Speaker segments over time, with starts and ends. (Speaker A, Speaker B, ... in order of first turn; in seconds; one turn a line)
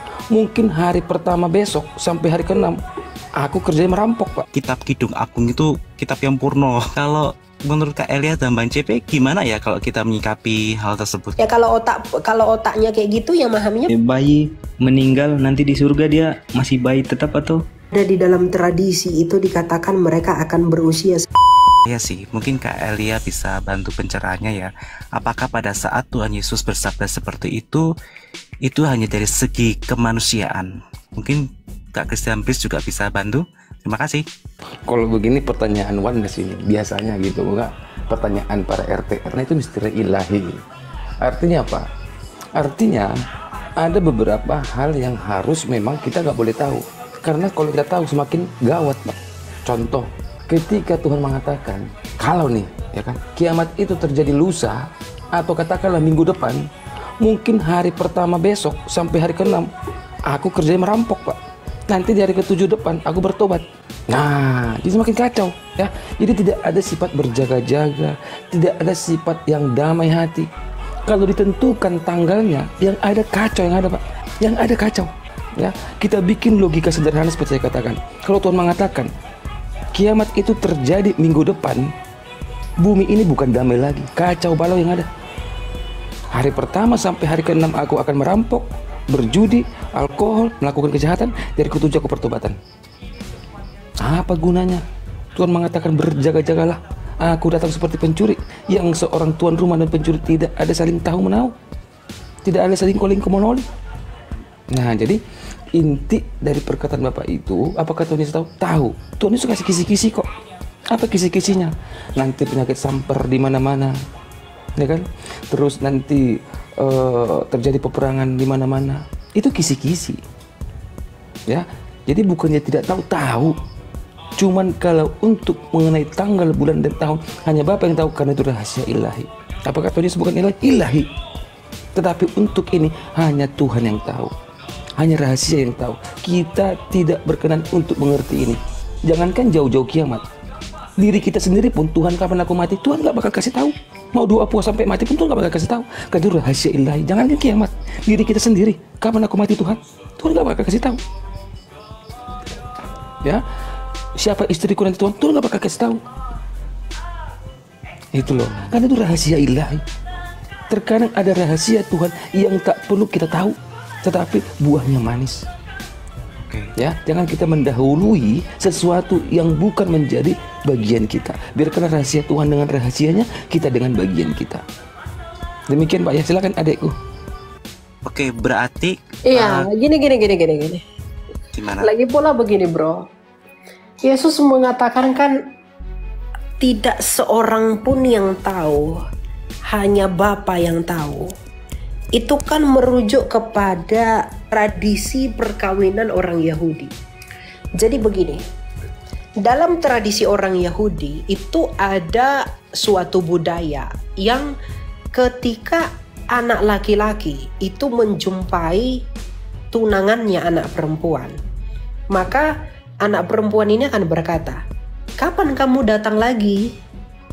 Speaker A: 0.3-2.8
Speaker A: 3.4-4.5
Speaker B: 4.5-11.4
Speaker C: 11.4-13.9
Speaker D: 13.9-17.6
Speaker C: 17.9-21.3
Speaker B: 21.9-27.9
Speaker B: 28.6-34.2
Speaker A: 34.9-40.6
Speaker A: 41.2-41.9
Speaker A: 42.5-43.1
Speaker A: 43.8-56.7
Speaker A: 57.2-59.7
Speaker A: 60.3-70.5
Speaker A: 71.1-79.1
Speaker A: 79.9-81.9
Speaker A: 82.8-85.1
Speaker A: 86.3-92.6
Speaker A: 94.0-94.8
Speaker A: 95.4-101.5
Speaker A: 102.4-103.6
Speaker A: 104.7-105.2
Speaker A: 105.7-110.3
Speaker A: 110.9-114.0
Speaker A: 114.8-120.2
Speaker A: 121.5-123.5
Speaker A: 124.4-131.1
Speaker A: 131.9-134.3
Speaker A: 135.0-140.3
Speaker A: 141.0-151.0
Speaker A: 154.2-156.0
Speaker A: 158.1-159.8
Speaker A: 160.7-165.4
Speaker A: 166.8-174.6
Speaker A: 175.7-177.0
Speaker B: 178.1-179.7
Speaker C: 179.3-180.8
Speaker B: 181.6-181.9
Speaker C: 181.8-183.1
Speaker C: 184.0-185.4
Speaker C: 186.6-189.0
Speaker C: 189.7-191.3
Speaker C: 192.2-196.9
Speaker C: 197.8-198.4
Speaker C: 199.4-204.5
Speaker C: 205.1-208.9
Speaker C: 209.7-211.3
Speaker C: 212.1-212.5
Speaker C: 213.0-214.6
Speaker C: 215.2-216.6